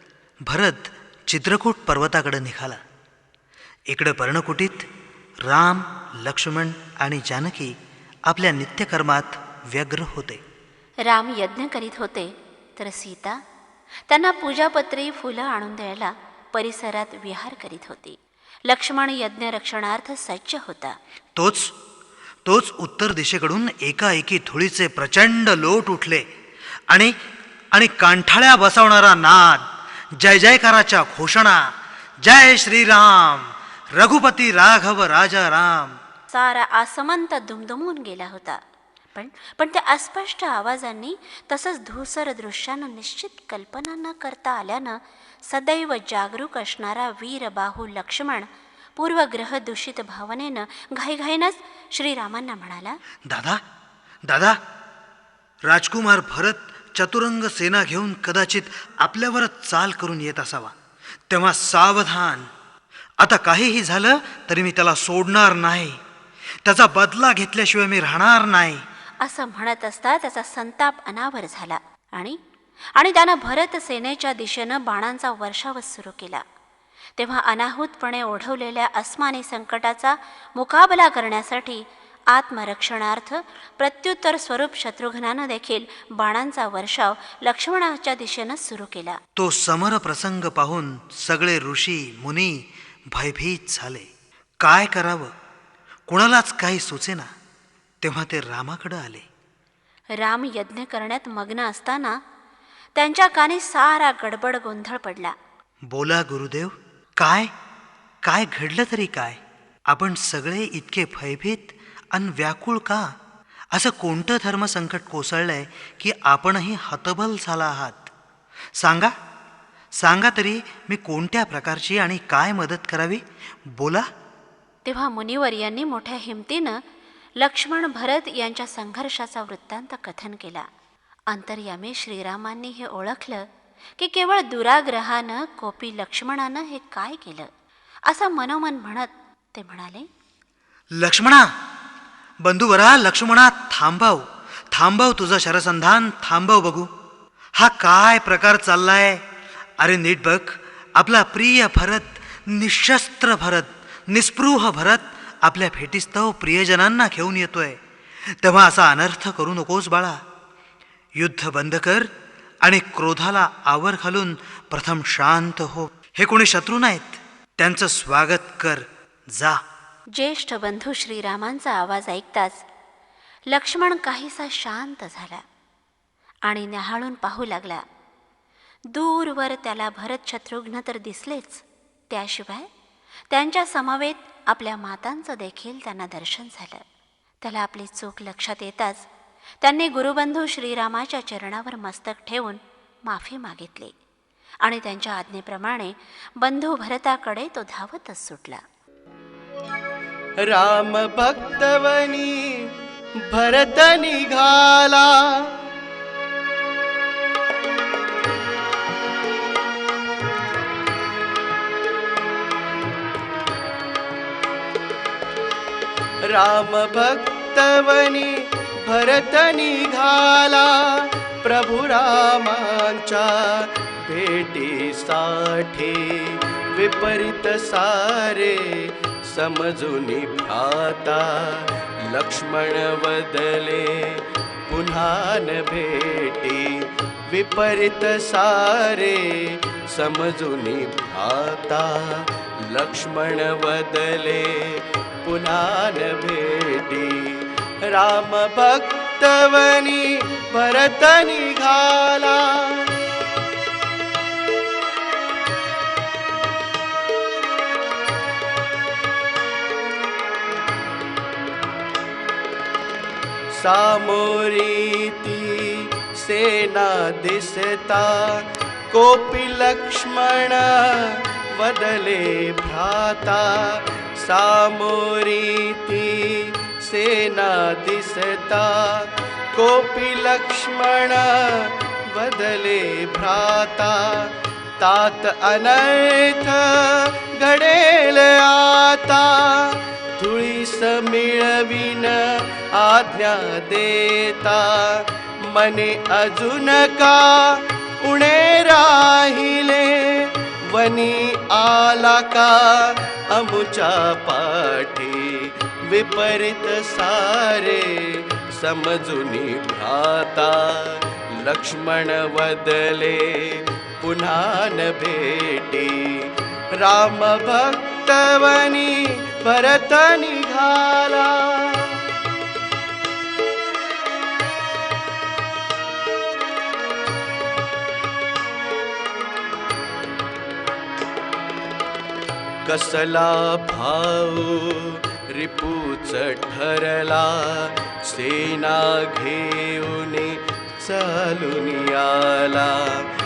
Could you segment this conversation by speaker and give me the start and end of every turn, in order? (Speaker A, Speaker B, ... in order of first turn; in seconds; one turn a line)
Speaker A: 0.5-2.8
Speaker A: 3.9-4.9
Speaker A: 5.5-7.7
Speaker A: 8.3-10.4
Speaker B: 11.1-13.4
Speaker B: 14.1-20.9
Speaker A: 21.4-21.7
Speaker A: 22.4-26.2
Speaker A: 27.7-29.6
Speaker A: 30.2-31.6
Speaker A: 32.2-35.9
Speaker B: 36.3-38.6
Speaker B: 39.1-53.0
Speaker A: 53.3-53.6
Speaker A: 54.3-54.6
Speaker A: 55.7-60.7
Speaker A: 61.3-62.5
Speaker A: 63.2-66.0
Speaker A: 66.6-68.8
Speaker B: 69.2-72.4
Speaker B: 73.0-76.4
Speaker B: 77.2-89.2
Speaker A: 89.4-94.1
Speaker A: 94.6-95.3
Speaker A: 96.1-97.3
Speaker A: 98.0-99.2
Speaker B: 100.2-102.2
Speaker B: 103.0-105.3
Speaker A: 105.9-107.5
Speaker A: 108.2-113.1
Speaker A: 113.7-118.1
Speaker A: 118.8-119.1
Speaker A: 120.0-123.2
Speaker A: 123.7-124.0
Speaker B: 124.8-126.8
Speaker B: 127.4-130.7
Speaker B: 131.3-133.4
Speaker B: 134.0-137.5
Speaker B: 138.1-140.1
Speaker A: 141.0-141.5
Speaker A: 142.4-146.9
Speaker A: 147.6-149.2
Speaker A: 149.8-157.8
Speaker A: 158.4-160.2
Speaker A: 161.2-162.1
Speaker A: 162.6-169.6
Speaker B: 170.2-172.6
Speaker B: 173.5-175.4
Speaker B: 176.5-177.8
Speaker B: 178.9-182.7
Speaker B: 183.3-186.8
Speaker B: 187.4-189.1
Speaker B: 189.6-193.9
Speaker B: 194.6-198.6
Speaker C: 200.5-202.3
Speaker C: 203.3-205.6
Speaker C: 216.3-218.3
Speaker C: 218.8-236.7
Speaker C: 237.3-242.2
Speaker C: 242.7-252.9
Speaker C: 263.6-270.8
Speaker C: 271.6-281.4
Speaker C: 282.1-284.1
Speaker C: 284.8-316.1
Speaker C: 316.8-322.0
Speaker C: 332.6-343.0